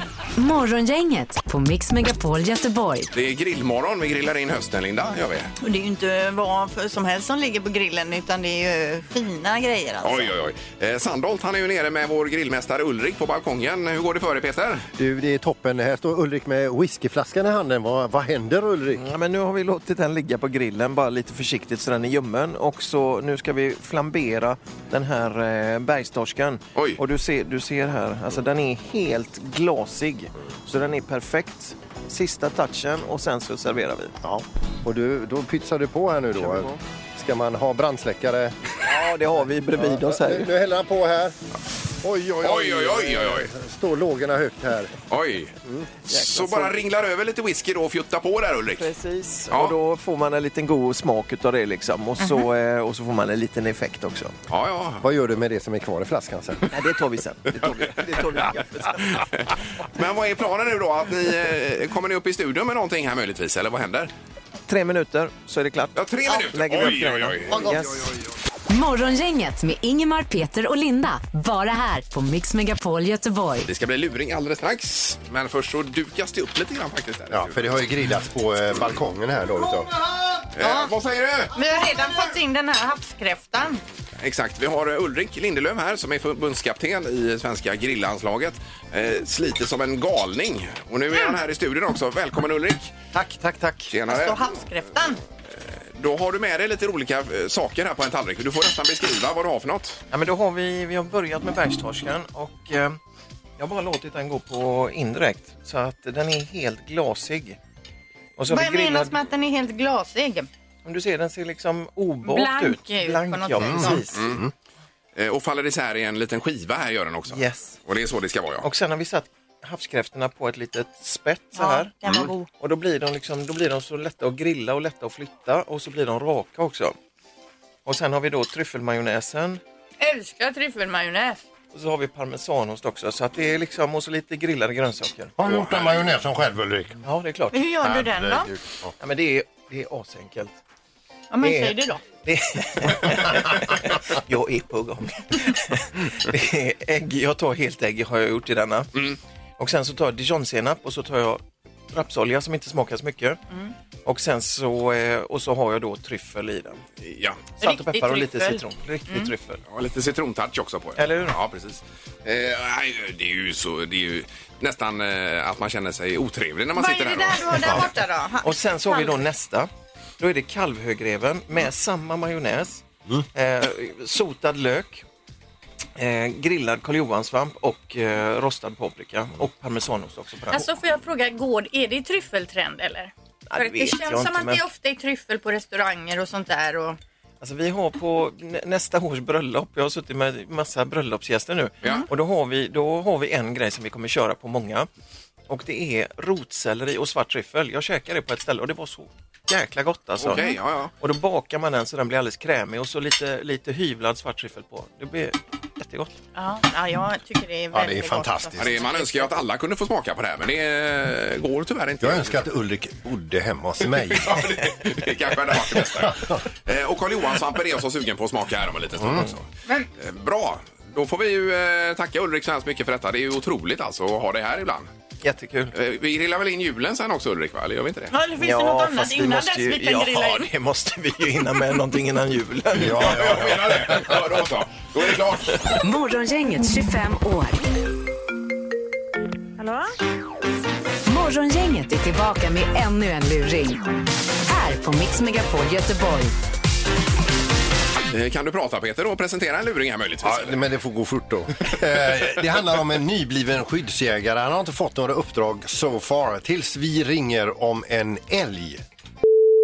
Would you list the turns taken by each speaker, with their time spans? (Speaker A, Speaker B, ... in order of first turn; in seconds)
Speaker A: 0.3-3.1, 68.7-73.7, 235.8-237.6, 241.1-243.8, 244.4-246.3
Speaker B: 3.1-5.5, 10.0-14.9, 42.4-43.5, 45.1-45.5, 46.1-48.9, 54.5-55.0, 59.0-64.1, 66.0-67.6, 73.6-77.7, 80.5-81.5, 84.2-93.0, 93.9-94.6, 95.5-100.0, 114.1-114.4, 115.2-118.7, 135.6-135.9, 157.0-157.4, 159.7-167.8, 200.2-200.9, 208.6-212.5, 213.9-219.4, 220.0-224.9, 225.7-228.1, 232.8-235.6, 248.1-250.6
Speaker C: 5.6-10.3, 52.2-52.5, 66.3-66.5, 67.5-67.8, 80.6-80.9, 81.5-83.8, 94.0-95.2, 108.5-110.5, 112.2-114.0, 121.5-122.5, 130.0-131.4, 137.5-138.5, 141.3-142.0, 157.6-159.3, 166.7-169.2, 180.5-187.0, 206.3-209.3, 228.1-230.5
Speaker D: 15.0-19.0, 34.2-38.6, 39.8-41.4, 42.0-44.9, 55.0-56.7, 77.3-79.9, 113.6-114.5, 135.4-137.0, 137.8-138.9, 207.7-208.8, 212.0-214.5, 215.7-216.4, 219.0-219.3, 232.7-234.2, 250.2-258.8
Speaker E: 18.9-34.1, 36.4-36.8, 38.8-40.5, 46.0-46.8, 48.8-54.4, 56.7-59.2, 64.7-68.1, 93.1-93.9, 100.1-103.0, 103.6-107.6, 108.4-109.2, 110.8-114.4, 117.3-117.8, 118.6-121.9, 122.6-126.9, 127.8-129.6, 131.7-135.3, 137.0-137.7, 139.0-140.6, 141.4-149.0, 149.6-153.4, 154.0-156.8, 157.6-159.6, 160.9-161.8, 168.4-175.0, 176.0-180.7, 183.5-184.6, 187.4-194.9, 195.5-206.2, 225.2-225.7, 228.4-233.2